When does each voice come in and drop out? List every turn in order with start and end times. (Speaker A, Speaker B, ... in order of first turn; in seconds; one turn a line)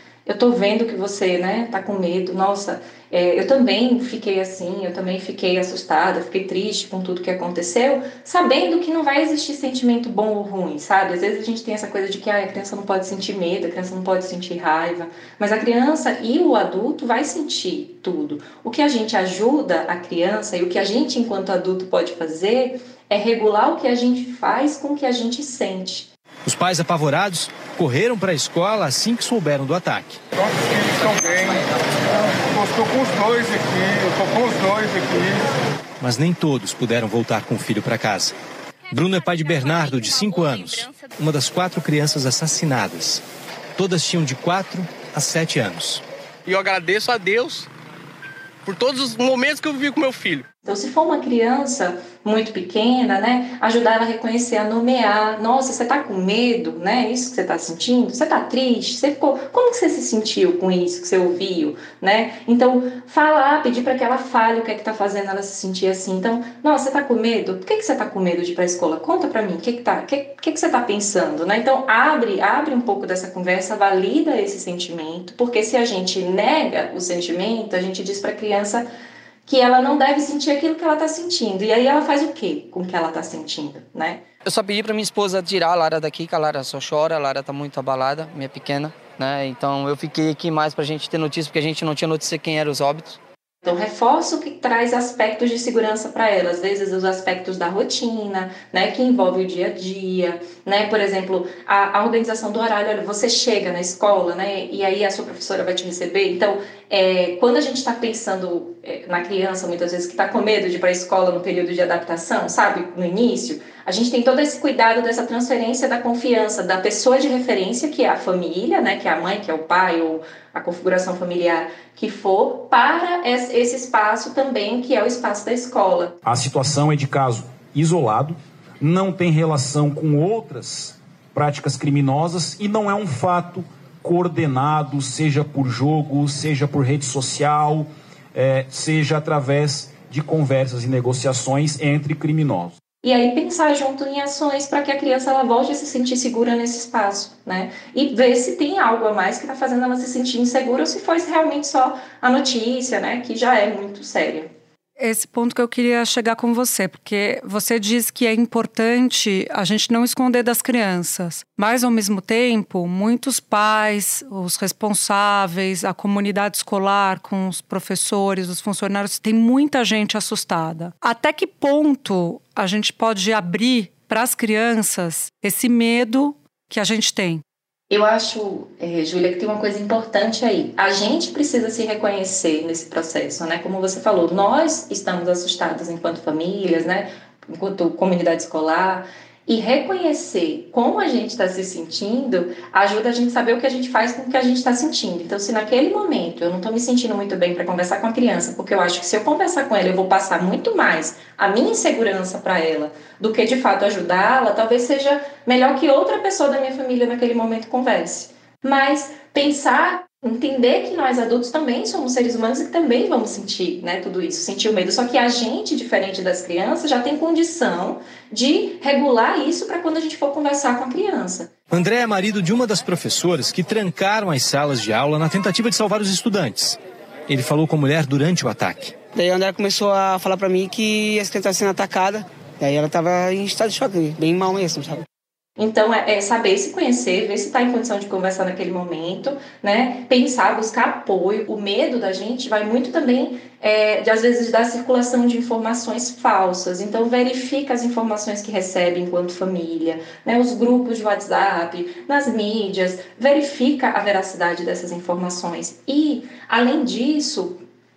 Speaker A: 0.2-26.1
Speaker B: 26.4-30.2
Speaker C: 30.4-31.6
Speaker C: 32.4-35.4
Speaker B: 36.0-38.3
Speaker B: 38.9-43.2
Speaker B: 43.8-46.0
Speaker D: 46.5-47.7
Speaker D: 48.6-50.5
Speaker A: 50.6-78.8
Speaker A: 79.5-84.2
Speaker E: 84.4-93.2
Speaker A: 93.6-126.1
Speaker F: 126.2-142.7
Speaker A: 143.0-154.5
Speaker G: 155.0-177.4
Speaker A: 177.9-221.5
Speaker B: 221.7-228.9
Speaker H: 229.2-235.0
Speaker A: 235.6-257.6